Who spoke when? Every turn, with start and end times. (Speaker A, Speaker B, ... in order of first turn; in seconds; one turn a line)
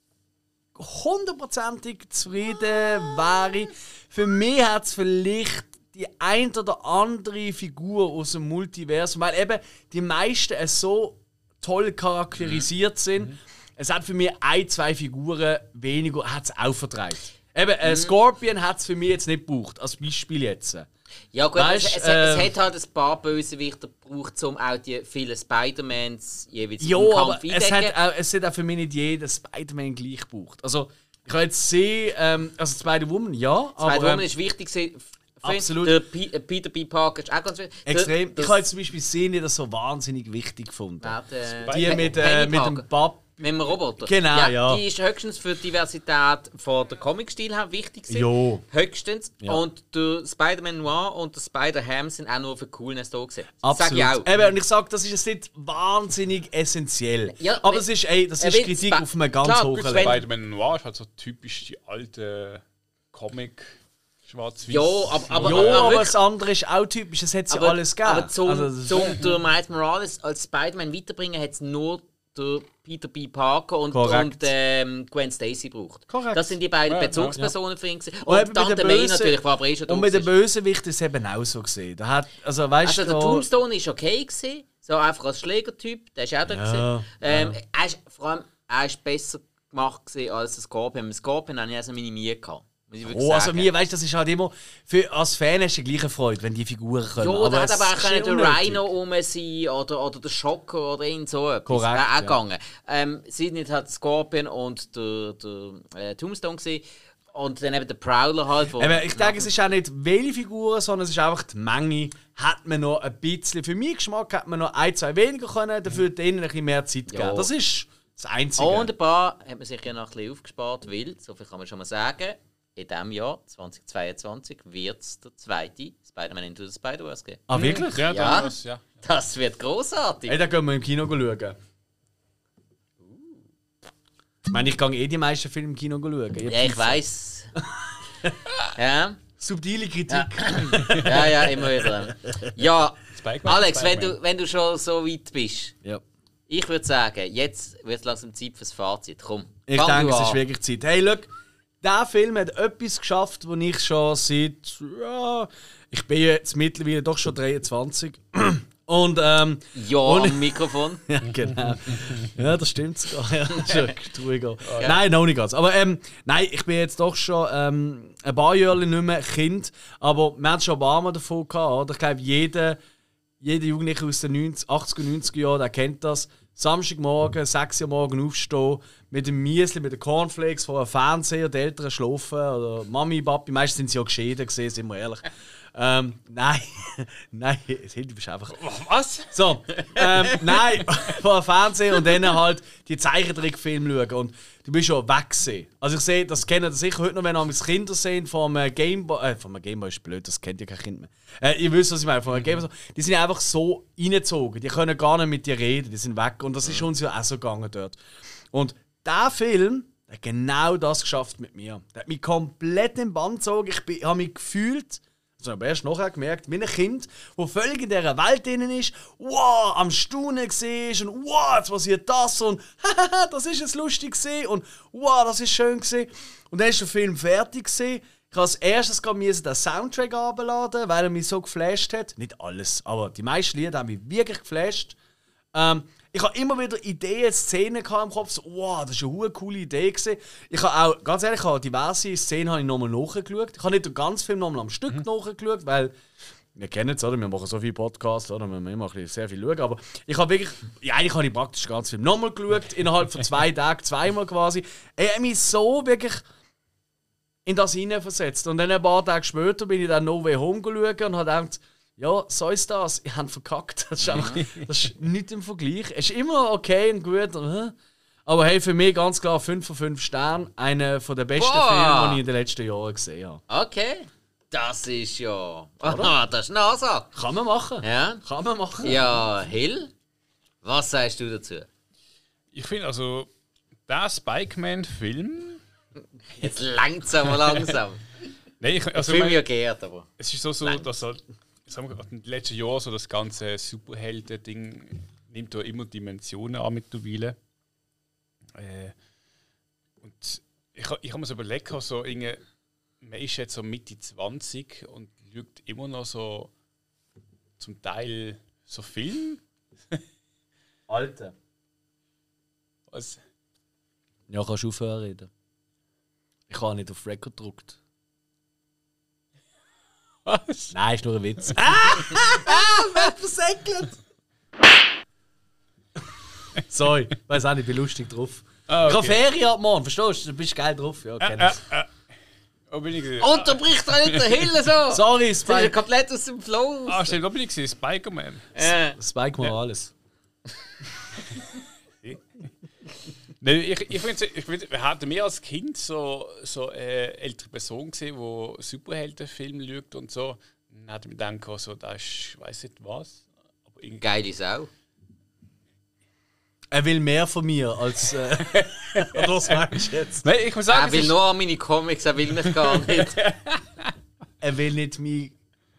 Speaker A: 0.7-20.9
Speaker B: 12.4-12.7
Speaker B: 17.8-18.1
Speaker B: 21.3-28.0
Speaker A: 21.6-22.5
Speaker A: 26.8-34.2
Speaker B: 33.8-38.6
Speaker A: 35.4-36.0
Speaker A: 37.9-44.8
Speaker B: 41.0-42.9
Speaker C: 41.6-42.1
Speaker B: 43.4-54.3
Speaker A: 48.1-48.6
Speaker A: 53.6-60.2
Speaker B: 57.3-57.9
Speaker B: 58.4-60.2
Speaker C: 59.9-66.0
Speaker B: 64.7-66.2
Speaker A: 65.4-69.2
Speaker B: 67.5-80.3
Speaker A: 73.9-74.5
Speaker A: 76.1-76.5
Speaker C: 76.9-77.5
Speaker A: 78.2-83.5
Speaker B: 82.8-93.7
Speaker A: 86.5-87.6
Speaker A: 93.0-98.8
Speaker B: 97.2-109.5
Speaker A: 101.7-102.3
Speaker A: 108.8-118.9
Speaker B: 117.1-117.5
Speaker B: 118.6-127.4
Speaker A: 127.5-128.1
Speaker C: 127.5-128.8
Speaker B: 128.0-130.4
Speaker A: 130.3-131.6
Speaker B: 133.0-133.4
Speaker A: 134.5-137.0
Speaker B: 136.4-137.5
Speaker A: 137.6-138.4
Speaker B: 138.7-139.2
Speaker A: 139.4-142.4
Speaker B: 140.1-145.8
Speaker C: 143.1-144.2
Speaker B: 146.5-150.4
Speaker A: 149.7-151.3
Speaker A: 151.8-172.8
Speaker B: 159.7-161.0
Speaker C: 164.6-164.9
Speaker A: 173.4-188.6
Speaker C: 188.5-189.3
Speaker A: 189.3-208.0
Speaker B: 189.8-190.6
Speaker A: 208.5-234.9
Speaker A: 235.5-245.9
Speaker A: 246.5-256.2
Speaker A: 257.4-267.7
Speaker B: 264.1-264.4
Speaker C: 264.2-264.7
Speaker A: 268.2-273.4
Speaker B: 271.4-272.2
Speaker B: 273.5-277.1
Speaker A: 275.8-276.1
Speaker A: 277.1-279.0
Speaker B: 277.8-278.2
Speaker B: 278.8-279.9
Speaker B: 280.6-281.7
Speaker C: 282.5-283.3
Speaker C: 283.9-285.6
Speaker B: 286.3-288.1
Speaker C: 287.2-287.7
Speaker C: 288.6-289.4
Speaker B: 288.9-290.1
Speaker C: 290.2-297.4
Speaker C: 298.5-298.9
Speaker C: 300.0-302.4
Speaker C: 303.0-306.5
Speaker C: 307.6-310.0
Speaker A: 310.9-311.3
Speaker C: 312.9-313.2
Speaker A: 314.3-315.3
Speaker A: 316.5-317.8
Speaker C: 320.2-320.7
Speaker A: 320.7-324.0
Speaker C: 321.4-323.1
Speaker A: 326.7-331.6
Speaker C: 328.7-329.2
Speaker C: 331.2-331.9
Speaker C: 332.7-334.5
Speaker B: 333.2-337.1
Speaker A: 334.9-335.7
Speaker C: 336.9-338.7
Speaker B: 338.5-339.0
Speaker A: 338.9-339.9
Speaker C: 343.4-354.0
Speaker B: 354.0-354.7
Speaker A: 356.7-360.2
Speaker C: 358.4-361.1
Speaker B: 360.7-363.2
Speaker C: 362.4-363.9
Speaker A: 364.4-365.4